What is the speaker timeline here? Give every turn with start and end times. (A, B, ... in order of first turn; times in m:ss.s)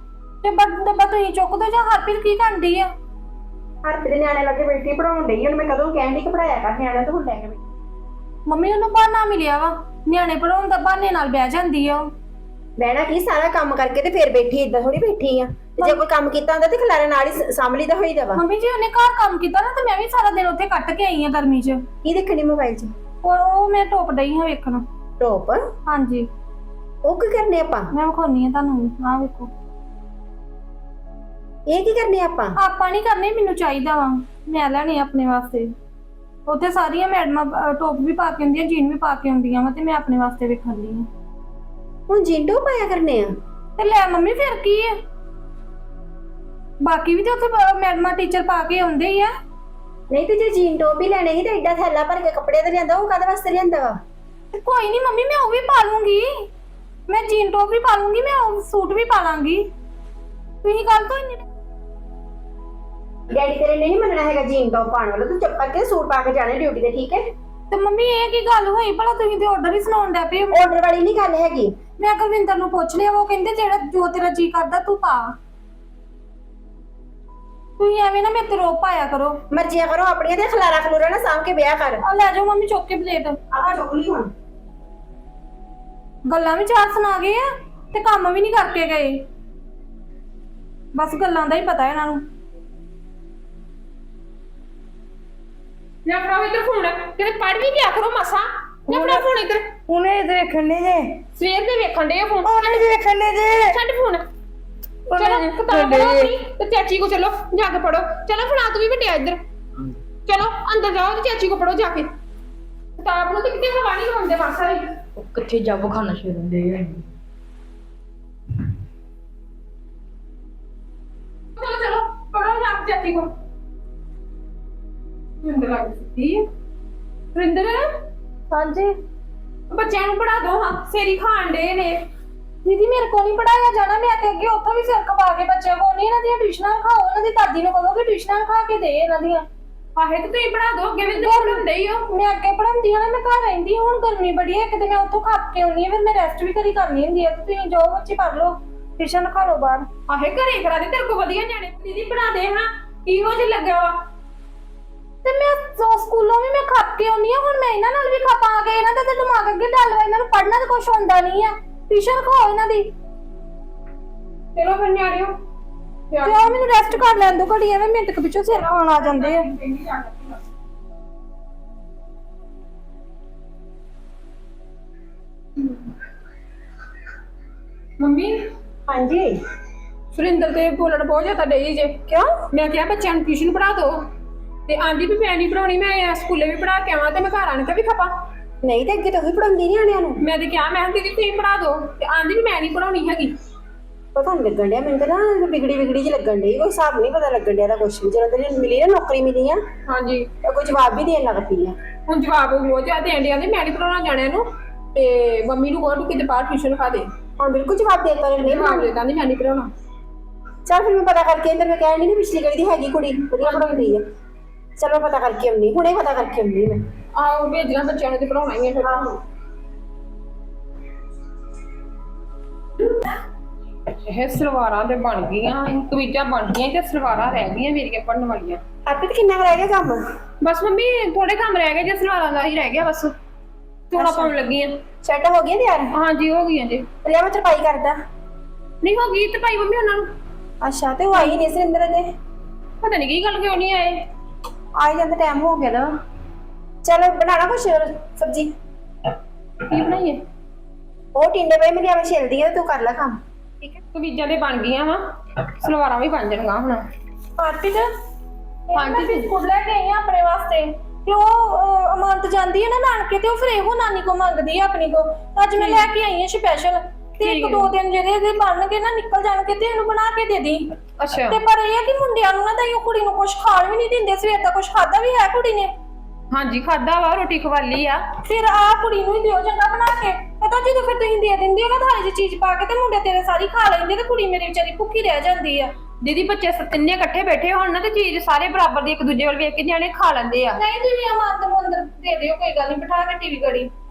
0:00.4-0:02.9 A
0:03.8-0:07.6 B
0:08.5-0:12.1 A
0:12.8-0:18.4 B
0:18.4-0:21.8 A
0:22.0-0:22.9 B
0:23.2-0:24.8 A
0:25.2-0:25.6 B
0:25.9-0:26.3 A
0:27.0-0:27.9 B
0:27.9-0:29.5 A
0:31.7-0:32.6 B
0:32.6-0:35.7 A
0:36.4-0:41.1 A
0:42.1-0:43.3 B
0:43.8-0:44.9 A
0:46.8-0:49.3 A
0:50.1-0:53.9 B
0:54.5-0:56.3 A
0:57.1-0:59.6 A
1:00.6-1:01.4 A
1:03.3-1:07.2 B
1:07.7-1:10.7 A
1:10.5-1:11.7 B
1:12.0-1:15.3 A
1:17.8-1:19.4 A
1:19.5-1:22.0 B
1:22.0-1:23.4 A
1:23.5-1:24.3 B
1:26.3-1:29.2 A
1:30.9-1:32.2 A
1:36.0-1:39.7 C
1:39.9-1:41.2 D
1:41.4-1:44.3 C
1:42.5-1:43.7 D
1:45.1-1:49.4 C
1:45.1-1:46.3 D
1:50.3-1:52.1 C
1:53.0-1:54.9 C
1:55.2-1:57.0 D
2:01.6-2:03.3 C
2:05.4-2:06.4 C
2:07.3-2:07.9 C
2:08.5-2:08.9 A
2:09.7-2:12.0 C
2:12.6-2:19.4 A
2:20.0-2:22.0 C
2:21.1-2:29.9 A
2:30.1-2:34.0 C
2:35.2-2:42.8 A
2:44.6-2:45.4 C
2:46.1-2:47.1 C
2:46.2-2:49.5 A
2:48.5-2:50.4 C
2:58.0-2:58.4 C
2:58.9-2:59.4 B
3:00.1-3:04.1 C
3:04.7-3:08.1 C
3:08.6-3:10.2 B
3:10.2-3:13.3 C
3:14.1-3:19.6 B
3:19.9-3:20.3 C
3:20.4-3:21.7 B
3:22.1-3:27.1 C
3:27.4-3:28.9 B
3:28.4-3:29.7 C
3:30.7-3:34.0 B
3:33.4-3:34.0 C
3:34.8-3:36.8 B
3:37.2-3:39.1 C
3:38.8-3:39.2 B
3:44.0-3:48.6 C
3:48.8-3:50.0 B
3:50.4-3:53.1 C
3:53.9-3:54.8 C
3:53.9-3:54.3 B
3:55.0-3:55.9 B
3:55.9-3:56.9 C
3:57.0-3:58.0 B
3:58.8-4:00.1 C
4:00.6-4:02.0 B
4:02.8-4:04.1 C
4:04.8-4:05.9 B
4:06.8-4:08.5 B
4:09.6-4:10.2 C
4:11.1-4:13.8 B
4:13.9-4:16.8 C
4:17.4-4:17.9 A
4:18.7-4:30.6 A
4:18.7-4:19.3 C
4:25.6-4:25.9 C
4:27.2-4:27.7 C
4:31.0-4:31.4 C
4:31.3-4:35.7 A
4:36.3-4:38.0 C
4:38.2-4:45.7 A
4:46.0-4:50.6 C
4:50.5-4:53.7 A